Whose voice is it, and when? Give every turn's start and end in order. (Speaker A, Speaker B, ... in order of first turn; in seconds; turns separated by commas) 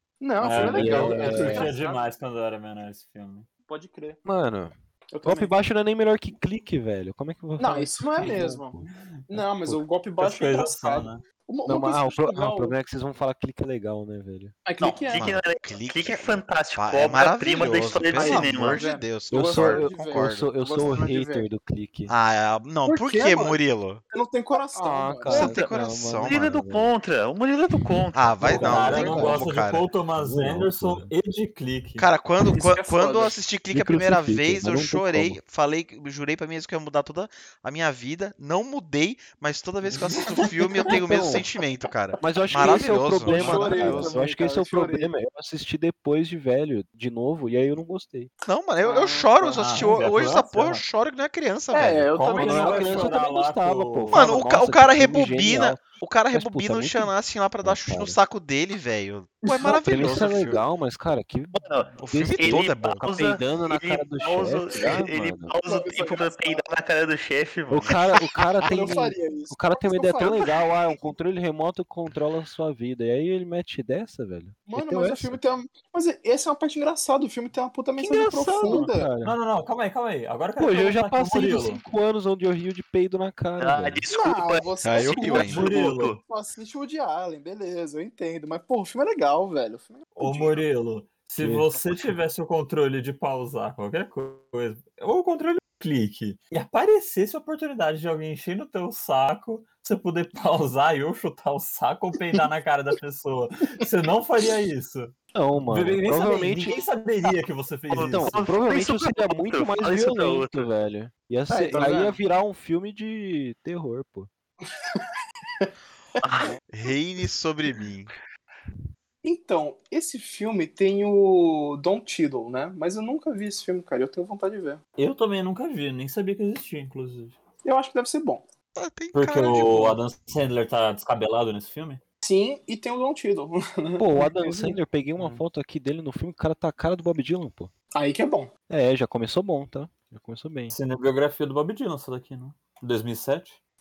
Speaker A: 0.2-2.0, Speaker B: 0.4-3.5, Speaker C: 0.5-1.7, Speaker A: 3.7-4.2, Speaker C: 4.2-8.9, Speaker A: 5.1-5.5, Speaker A: 7.6-8.8, Speaker A: 9.3-12.8, Speaker B: 10.2-11.2, Speaker C: 11.6-14.6, Speaker A: 14.6-15.3, Speaker D: 14.8-18.8, Speaker E: 15.1-20.5, Speaker A: 18.1-21.5, Speaker C: 19.3-22.1, Speaker E: 22.1-24.0, Speaker A: 22.8-23.6, Speaker A: 24.1-25.6, Speaker C: 24.7-26.9, Speaker E: 25.3-26.6, Speaker D: 25.3-25.7, Speaker D: 26.2-29.2, Speaker E: 28.1-29.9, Speaker B: 28.4-32.1, Speaker C: 28.6-29.5, Speaker A: 28.9-29.2, Speaker C: 30.1-31.1, Speaker E: 32.0-44.2, Speaker A: 32.5-33.4, Speaker C: 33.7-35.4, Speaker C: 40.9-41.4, Speaker C: 42.2-48.3, Speaker A: 42.5-45.1, Speaker B: 43.4-43.6, Speaker E: 48.5-52.1, Speaker A: 48.8-49.8, Speaker B: 49.5-50.8, Speaker A: 51.7-53.1, Speaker B: 52.1-54.3, Speaker C: 52.3-58.2, Speaker E: 54.1-60.6, Speaker C: 59.6-65.5, Speaker D: 61.5-68.0, Speaker E: 62.0-63.0, Speaker A: 65.6-66.6, Speaker C: 67.7-75.4, Speaker A: 68.6-70.8, Speaker A: 74.7-79.1, Speaker C: 78.0-79.4, Speaker B: 79.2-81.8, Speaker C: 80.6-84.0, Speaker D: 83.6-86.2, Speaker A: 84.1-90.6, Speaker E: 84.8-85.7, Speaker B: 85.4-86.2, Speaker B: 90.2-105.1, Speaker C: 91.4-92.2, Speaker C: 105.3-106.8, Speaker B: 105.7-108.5, Speaker D: 107.9-110.7, Speaker C: 108.0-114.3, Speaker A: 111.5-112.2, Speaker A: 114.8-115.0, Speaker D: 116.2-116.6, Speaker E: 116.7-118.1, Speaker A: 119.2-124.8, Speaker B: 125.0-127.4, Speaker A: 127.6-128.4, Speaker E: 128.8-130.0, Speaker B: 129.1-132.0, Speaker A: 132.2-134.8, Speaker C: 134.0-137.7, Speaker A: 137.9-138.5, Speaker C: 138.7-140.8, Speaker B: 140.7-143.6